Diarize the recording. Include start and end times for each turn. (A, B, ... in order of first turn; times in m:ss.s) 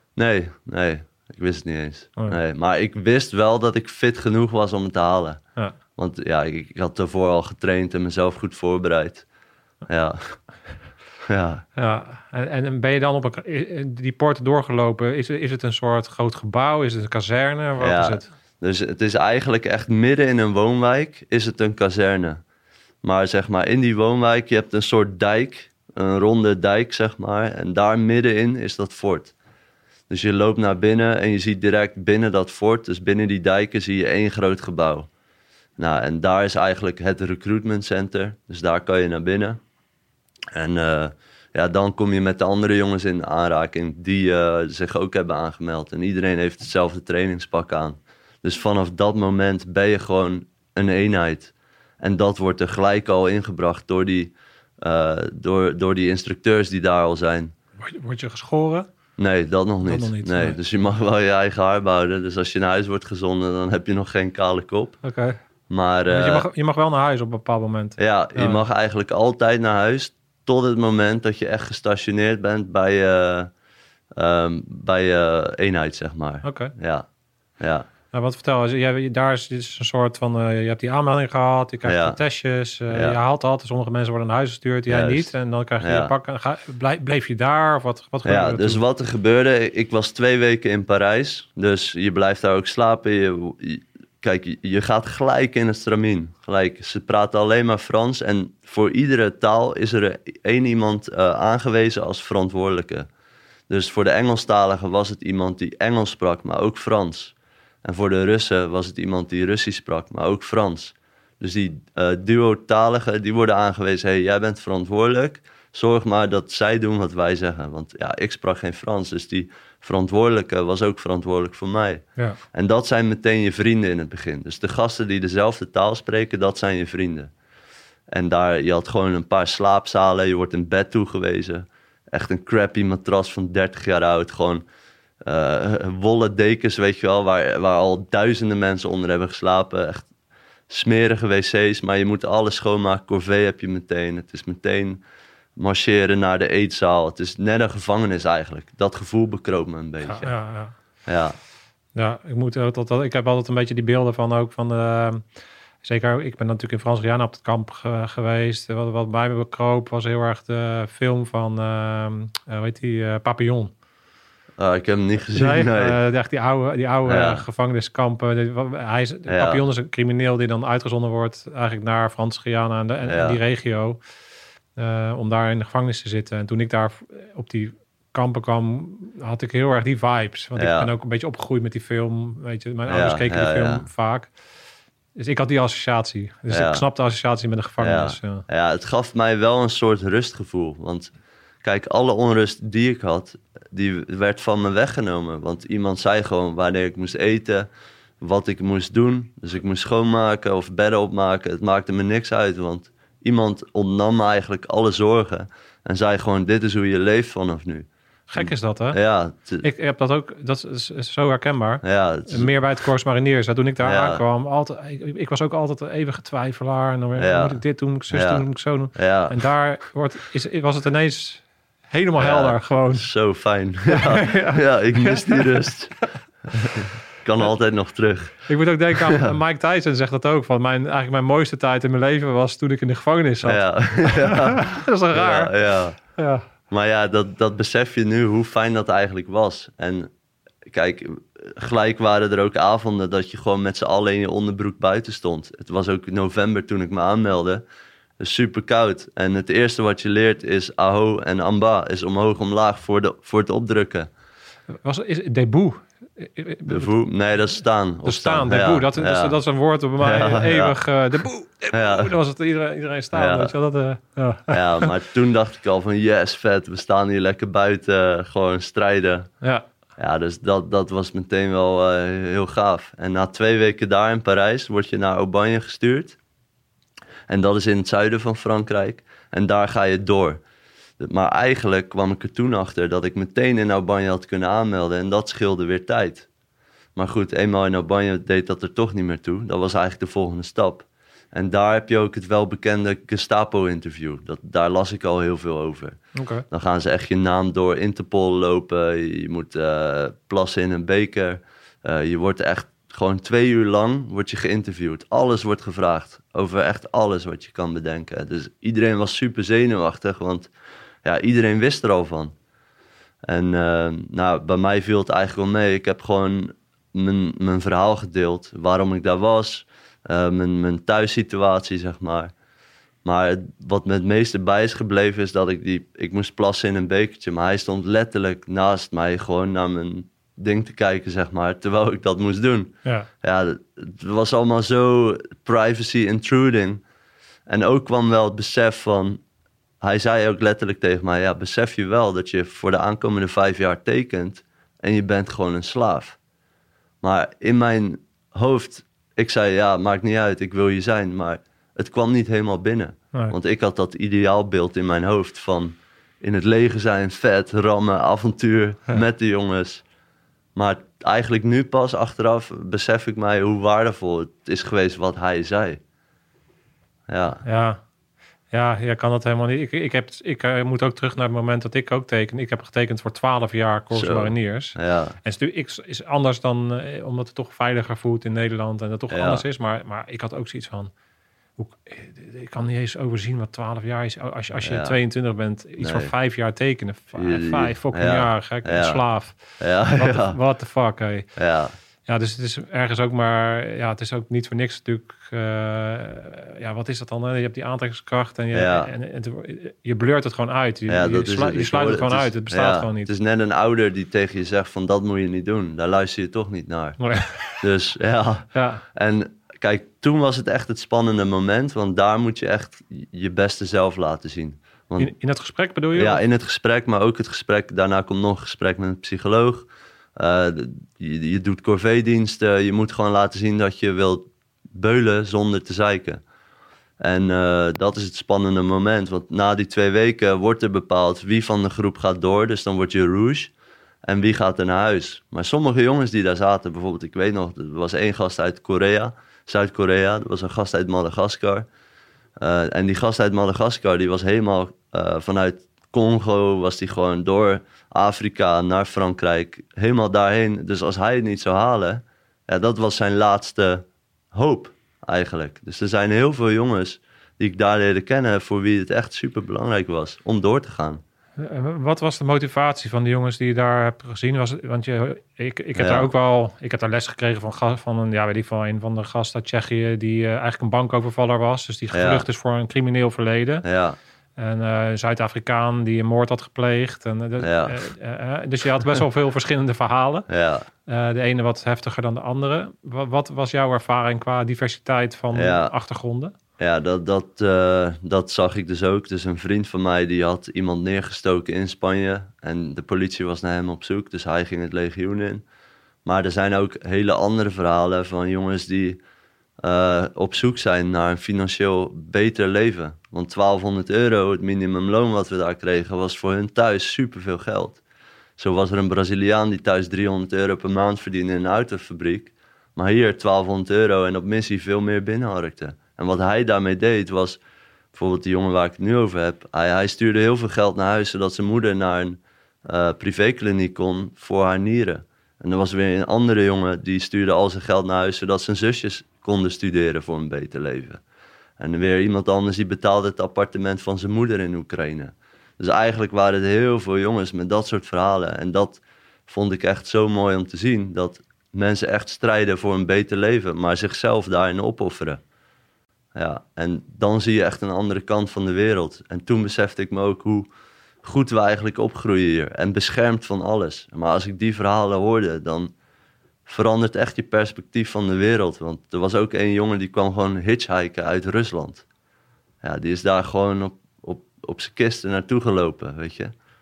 0:00.2-0:05.4 A
0:06.0-0:09.2 A
0:09.9-0:10.4 A
0:11.3-0:11.6 A
0:11.8-0:18.3 B
0:17.8-0:22.4 A
0:23.0-0:29.3 A
0:30.1-0:35.1 A
0:35.8-0:39.6 A
0:40.5-0:57.5 A
0:57.8-0:58.9 B
0:59.2-1:05.0 A
0:59.9-1:00.6 B
1:05.0-1:05.4 B
1:05.7-1:06.5 A
1:06.1-1:08.6 B
1:08.0-1:13.5 A
1:14.2-1:17.1 A
1:16.4-1:16.7 B
1:17.6-1:17.9 A
1:18.1-1:28.8 B
1:21.8-1:22.2 A
1:22.9-1:23.2 A
1:24.9-1:26.1 A
1:28.2-1:43.1 A
1:43.7-2:07.3 A
2:08.1-2:14.6 A
2:15.2-2:20.1 A
2:20.7-2:25.0 A
2:25.6-2:30.3 A
2:30.0-2:30.7 B
2:31.1-2:31.4 A
2:32.0-2:35.2 B
2:35.8-2:43.7 B
2:44.6-2:46.0 A
2:45.3-2:54.0 B
2:47.1-2:47.4 A
2:49.3-2:49.6 A
2:53.1-2:53.4 A
2:54.8-3:04.3 B
3:00.6-3:00.9 A
3:02.9-3:03.9 A
3:05.2-3:08.4 B
3:06.5-3:06.8 A
3:07.8-3:11.1 A
3:11.6-3:17.7 A
3:18.2-3:29.6 A
3:28.3-3:29.0 B
3:29.6-3:43.1 B
3:31.8-3:32.5 A
3:33.8-3:34.2 A
3:37.2-3:39.4 A
3:42.2-3:46.0 A
3:43.9-3:45.7 B
3:46.6-3:49.4 A
3:48.5-3:55.5 B
3:53.4-3:56.0 A
3:56.2-3:56.4 B
3:56.7-4:00.1 A
4:00.7-4:07.6 A
4:08.2-4:14.1 A
4:14.8-4:16.9 B
4:16.7-4:19.4 A
4:18.0-4:24.9 B
4:20.0-4:20.8 A
4:21.7-4:22.1 A
4:23.1-4:23.6 A
4:24.5-4:29.3 A
4:30.0-4:36.2 A
4:37.3-4:40.4 A
4:41.0-4:46.3 A
4:47.0-4:56.0 A
4:56.2-4:56.4 B
4:56.5-5:10.5 A
5:11.0-5:12.4 A
5:13.2-5:22.3 A
5:23.0-5:36.8 A
5:37.5-5:39.2 A
5:39.8-5:46.2 A
5:47.0-5:59.8 A
6:00.6-6:05.8 A
6:07.1-6:07.4 A
6:07.4-6:07.8 B
6:08.5-6:20.9 B
6:13.9-6:15.2 A
6:19.1-6:19.4 A
6:21.6-6:31.3 B
6:24.6-6:25.0 A
6:25.8-6:26.1 A
6:27.1-6:29.0 A
6:29.6-6:30.4 A
6:31.4-6:31.8 A
6:32.1-6:43.1 B
6:38.5-6:38.9 A
6:40.9-6:47.0 A
6:47.0-6:47.6 B
6:47.6-6:55.1 A
6:48.5-6:48.8 B
6:55.0-6:56.2 B
6:55.9-7:06.2 A
7:07.0-7:13.5 A
7:14.0-7:21.7 A
7:22.4-7:41.0 A
7:41.4-7:53.6 B
7:45.8-7:46.1 A
7:51.9-7:52.2 A
7:53.6-7:54.0 A
7:54.4-8:00.3 B
7:57.4-7:57.8 A
8:00.3-8:00.7 A
8:00.9-8:06.3 B
8:05.3-8:05.7 A
8:06.6-8:15.4 A
8:16.0-8:19.0 A
8:19.6-8:27.8 A
8:28.4-8:37.4 A
8:37.9-8:51.0 A
8:51.6-9:05.2 A
9:06.2-9:10.5 A
9:11.0-9:15.7 A
9:16.5-9:21.8 A
9:22.6-9:26.3 A